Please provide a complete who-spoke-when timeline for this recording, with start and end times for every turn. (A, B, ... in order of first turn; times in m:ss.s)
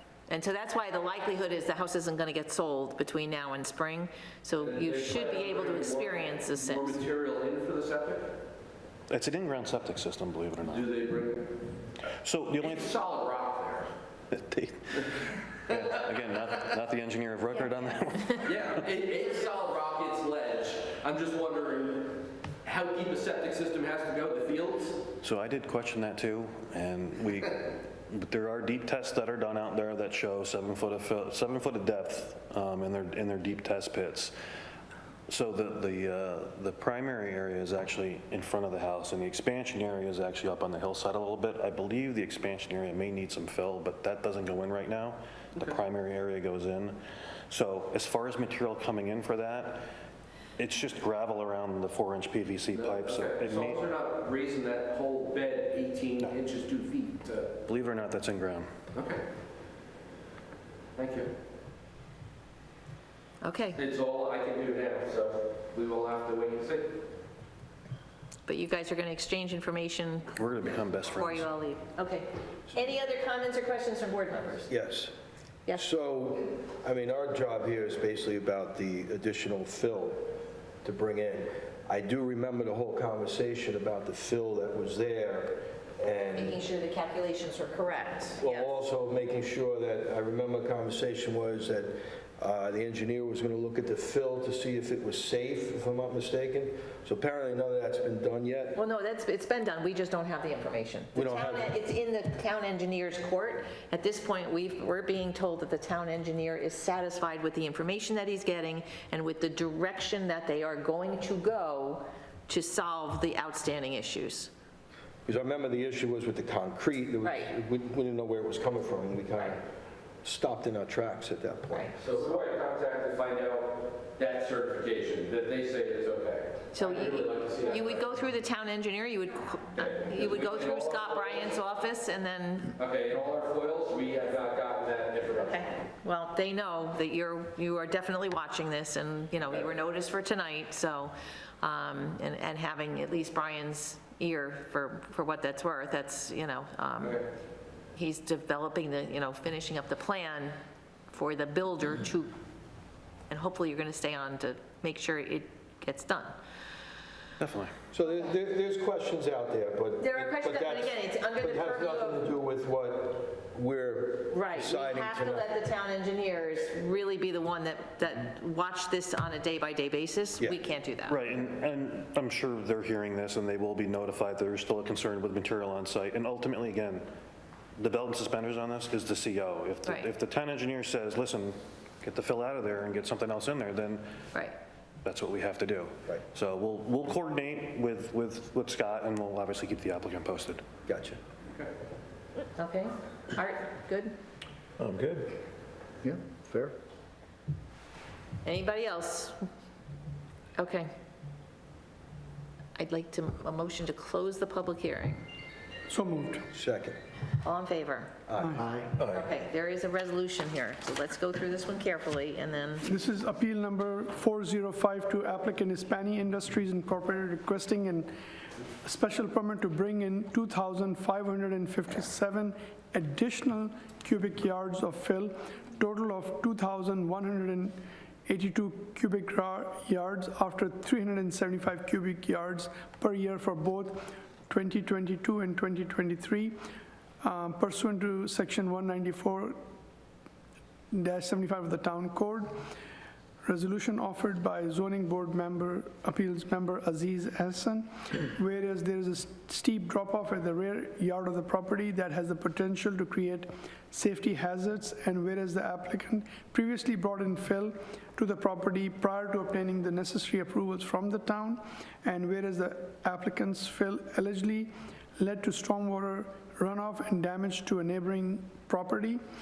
0:00.3-0:07.0 A
0:04.6-0:08.4 B
0:09.1-0:10.9 C
0:10.6-0:11.7 B
0:12.1-0:12.9 C
0:12.6-0:13.9 B
0:14.3-0:18.8 C
0:18.4-0:25.1 B
0:25.2-0:34.3 C
0:35.3-0:49.9 C
0:50.6-0:53.8 C
0:52.7-0:57.6 B
0:57.7-0:58.7 C
0:58.9-0:59.3 B
1:01.0-1:01.3 B
1:03.4-1:03.8 A
1:03.8-1:07.0 B
1:08.5-1:10.4 A
1:10.3-1:11.5 C
1:11.1-1:14.7 A
1:14.7-1:15.1 D
1:15.8-1:26.6 D
1:26.4-1:28.8 A
1:28.4-1:38.8 D
1:38.8-1:54.5 A
1:41.2-1:41.7 D
1:55.3-1:59.6 D
1:57.2-1:57.5 A
2:00.2-2:02.2 D
2:02.0-2:08.1 B
2:06.7-2:12.8 A
2:09.8-2:11.6 B
2:12.8-2:15.7 B
2:15.4-2:27.2 A
2:27.9-2:30.6 A
2:31.1-2:32.3 A
2:33.3-2:36.4 A
2:37.4-2:37.8 C
2:37.9-2:45.5 D
2:40.0-2:42.3 A
2:44.3-2:51.2 A
2:51.1-2:57.0 C
2:57.8-3:04.0 C
3:05.0-3:10.6 C
3:10.9-3:11.2 D
3:12.6-3:14.1 A
3:14.8-3:15.4 D
3:16.0-3:16.7 D
3:18.4-3:19.4 A
3:20.6-3:20.9 A
3:22.8-3:25.2 A
3:25.9-3:26.5 E
3:26.5-3:27.0 D
3:27.4-3:28.1 A
3:28.3-3:29.3 D
3:28.4-3:28.7 E
3:29.0-3:32.9 A
3:32.8-3:38.1 E
3:38.8-3:56.6 E
3:57.2-3:59.6 E
4:00.9-4:02.5 E
4:03.4-4:29.2 E